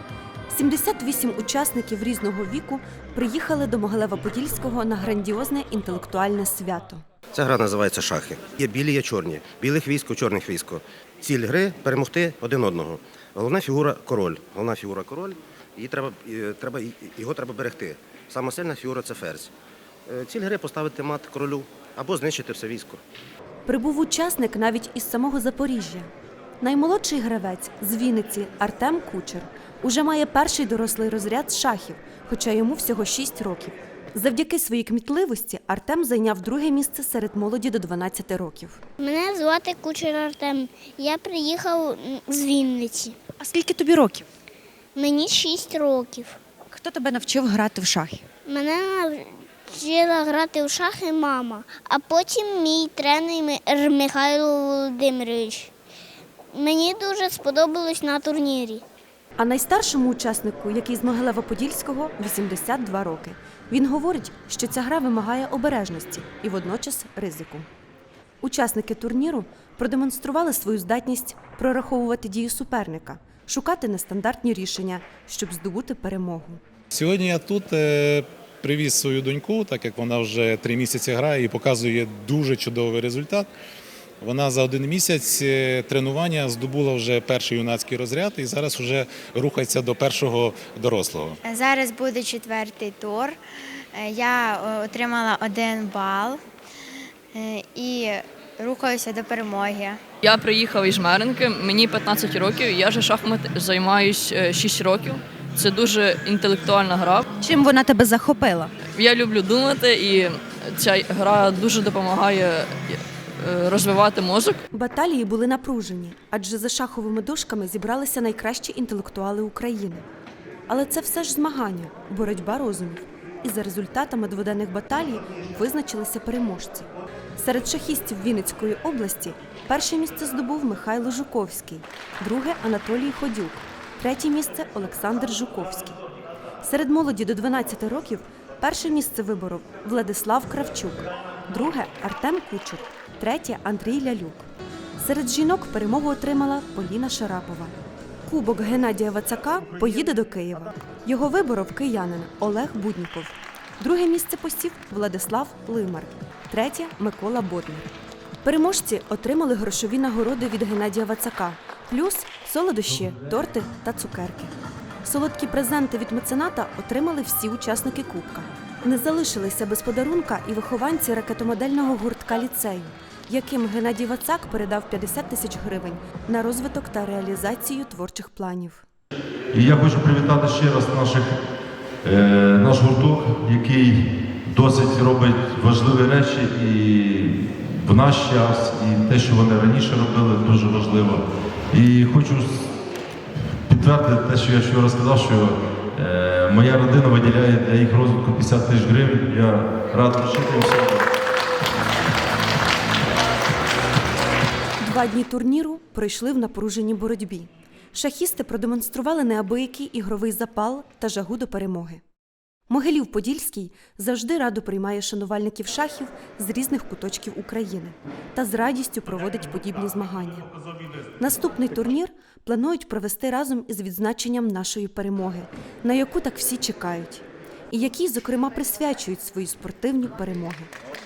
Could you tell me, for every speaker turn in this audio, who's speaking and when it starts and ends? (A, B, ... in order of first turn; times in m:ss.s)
0:00.5-0:07.0 A
0:07.3-0:19.5 B
0:20.1-0:23.0 B
0:23.7-0:38.8 A
0:39.0-0:43.2 C
0:44.0-0:44.2 D
0:45.0-0:46.4 C
0:46.9-0:48.2 D
0:48.5-0:55.7 C
0:56.5-0:58.8 C
0:59.4-1:07.7 A
1:08.4-1:16.6 A
1:16.9-1:23.5 E
1:24.2-1:31.4 E
1:31.4-1:33.4 F
1:33.9-1:36.4 F
1:37.3-1:40.0 F
1:40.2-1:47.3 G
1:47.5-1:48.7 D
1:49.0-1:54.6 G
1:54.7-2:00.0 A
2:00.7-2:16.0 A
2:16.6-2:24.5 A
2:25.0-2:37.9 A
2:38.4-2:44.5 A
2:45.0-2:58.8 A
2:59.5-3:01.4 H
3:02.0-3:12.7 H
3:13.7-3:21.1 H
3:24.8-3:32.0 A
3:32.7-3:40.5 A
3:41.2-3:50.7 A